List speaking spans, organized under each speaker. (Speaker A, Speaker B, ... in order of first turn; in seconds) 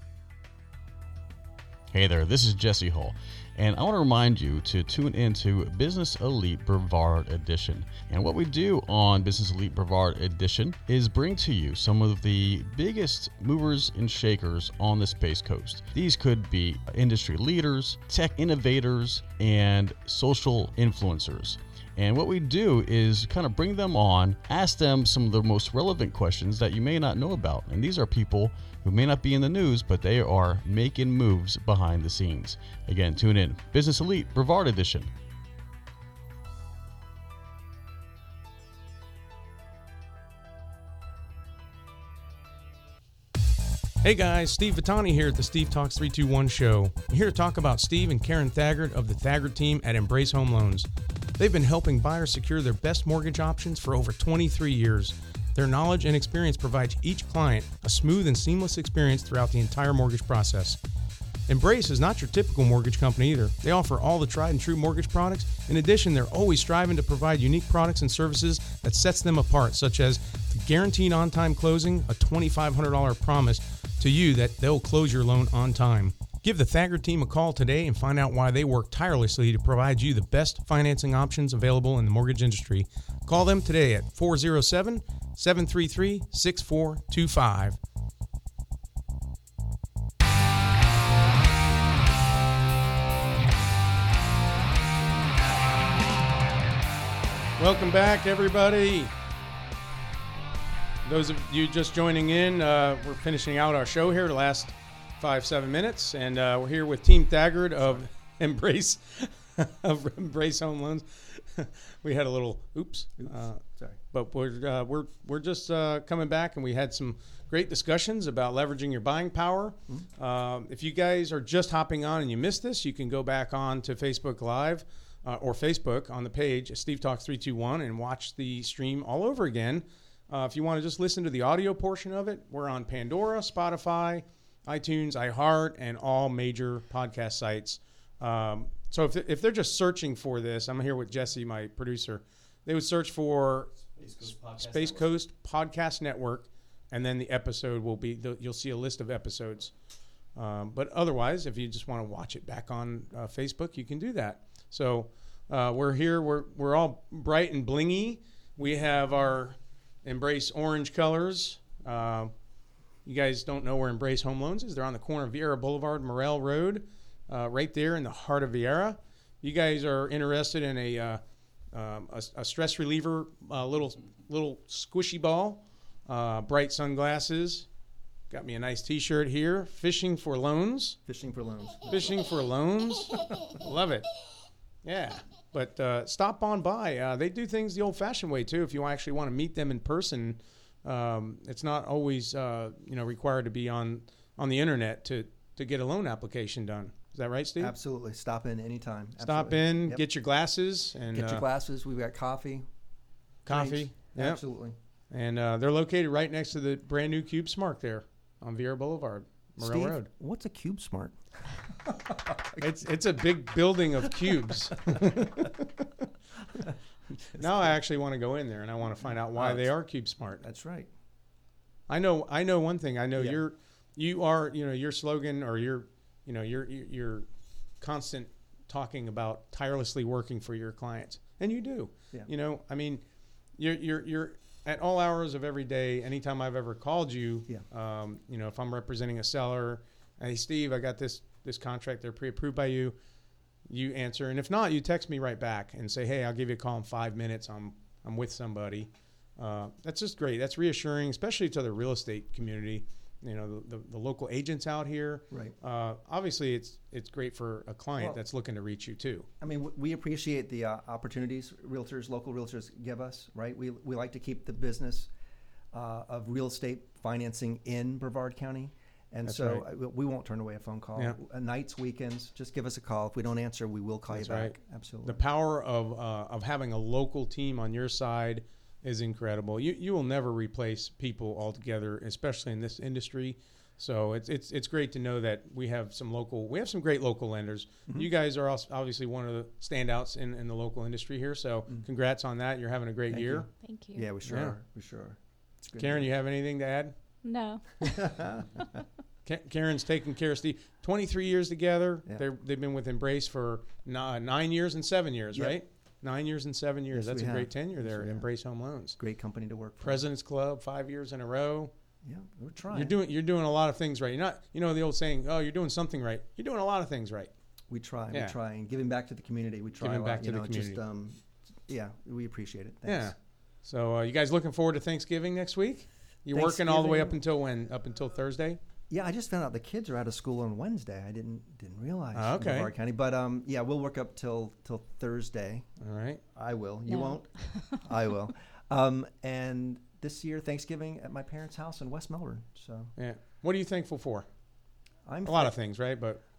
Speaker A: 1.9-35.1
Speaker B: 44.0-50.9, 51.4-60.8, 61.5-87.8, 97.6-99.1, 101.0-113.6, 114.1-149.7, 150.3-162.3, 163.0-177.7, 178.3-181.0, 181.9-184.1, 184.8-197.7, 199.2-201.5, 203.4-204.4, 205.1-210.1, 212.6-215.6, 217.3-220.4, 221.9-227.3, 227.8-233.0, 233.6-242.9, 243.7-259.3, 269.2-269.6, 274.1-293.5, 294.2-294.5, 295.8-296.9, 299.2-309.0, 309.8-311.7, 312.7-317.3, 319.8-320.8, 322.8-328.6, 332.1-332.7, 335.8-336.2, 342.9-344.3, 345.2-346.2
Speaker C: 107.8-108.0, 113.2-114.0, 181.1-182.2, 197.6-200.0, 201.1-202.7, 203.5-204.8, 209.6-211.2, 211.7-212.9, 214.0-215.5, 217.3-217.8, 219.0-219.8, 220.4-220.9, 223.1-223.4, 259.4-265.1, 265.7-275.2, 293.1-296.1, 297.8-298.8, 306.9-308.3, 309.0-310.0, 312.0-313.0, 317.7-323.1, 326.3-327.2, 328.9-335.7, 336.3-342.9, 345.1-345.6
Speaker D: 293.6-294.1, 297.2-298.7, 336.9-337.8